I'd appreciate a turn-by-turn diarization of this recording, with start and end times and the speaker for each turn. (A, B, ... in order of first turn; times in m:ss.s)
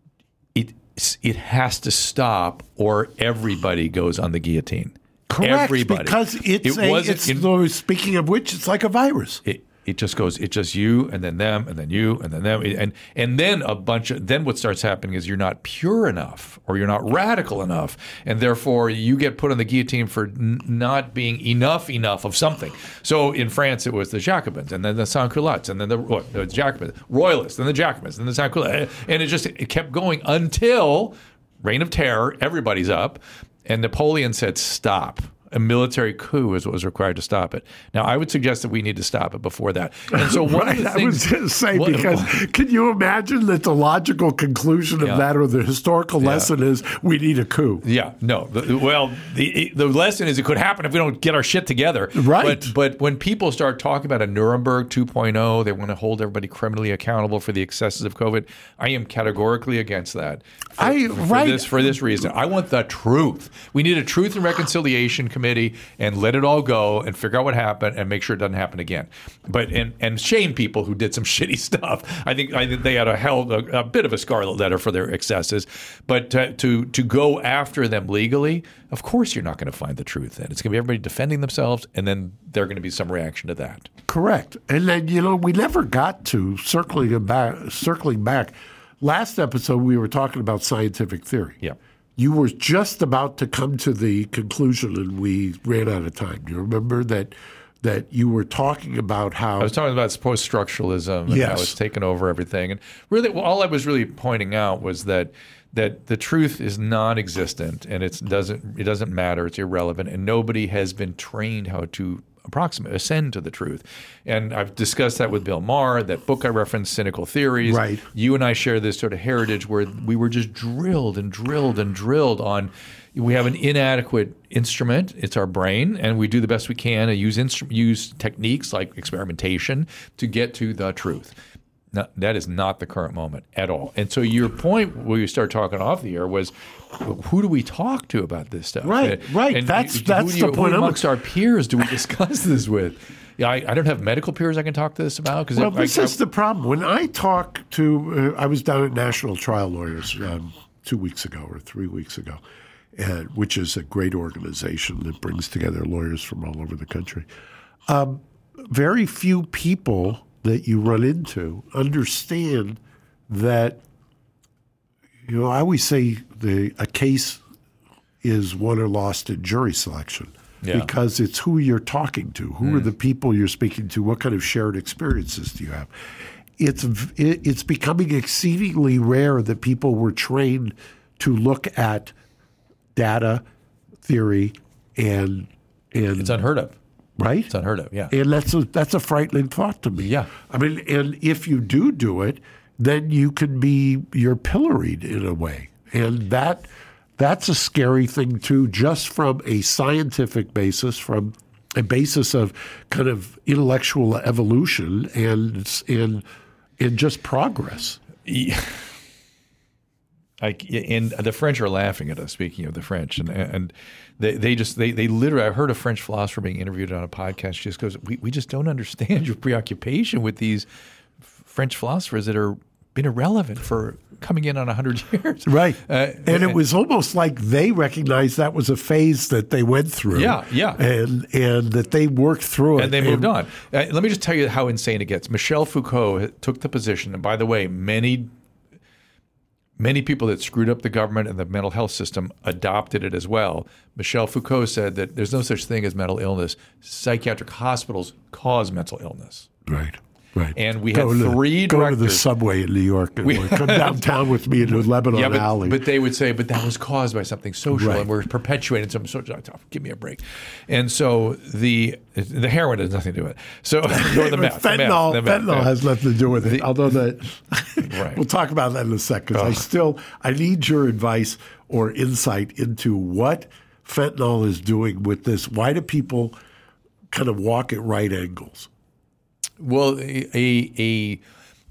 0:00.6-0:07.5 A
0:05.3-0:09.4 B
0:09.4-0:42.4 A
0:40.1-0:47.8 B
0:45.0-0:45.3 A
0:46.2-0:46.5 A
0:47.8-1:23.9 A
0:52.2-0:52.7 B
1:00.8-1:02.0 B
1:24.1-1:31.6 B
1:32.2-1:39.7 B
1:39.6-2:11.3 A
1:41.3-1:41.8 B
1:57.6-1:58.1 B
2:11.9-2:26.2 A
2:18.8-2:21.0 B
2:25.6-2:32.4 B
2:33.0-2:37.3 B
2:37.9-2:43.8 B
2:45.3-2:47.4 B
2:48.2-2:55.9 B
2:50.6-2:50.9 A
2:52.6-2:52.9 A
2:56.6-3:02.1 B
3:03.0-3:03.4 B
3:04.0-3:06.4 B
3:06.2-3:06.8 A
3:07.2-3:07.5 B
3:07.5-3:08.1 A
3:08.1-3:16.7 B
3:10.0-3:10.3 A
3:17.2-3:26.2 B
3:26.8-3:28.0 B
3:28.2-3:28.9 A
3:30.4-3:40.7 A
3:41.4-3:46.6 A
3:45.5-3:53.3 B
3:50.1-3:50.8 A
3:52.8-3:58.3 A
3:59.8-4:09.5 A
4:09.7-4:15.8 B
4:10.6-4:12.3 A
4:13.2-4:14.1 A
4:14.6-4:25.8 A
4:17.7-4:18.1 B
4:23.9-4:36.4 B
4:26.4-4:26.7 A
4:27.8-4:28.2 A
4:29.3-4:29.7 A
4:37.1-4:38.7 B
4:39.6-4:41.2 A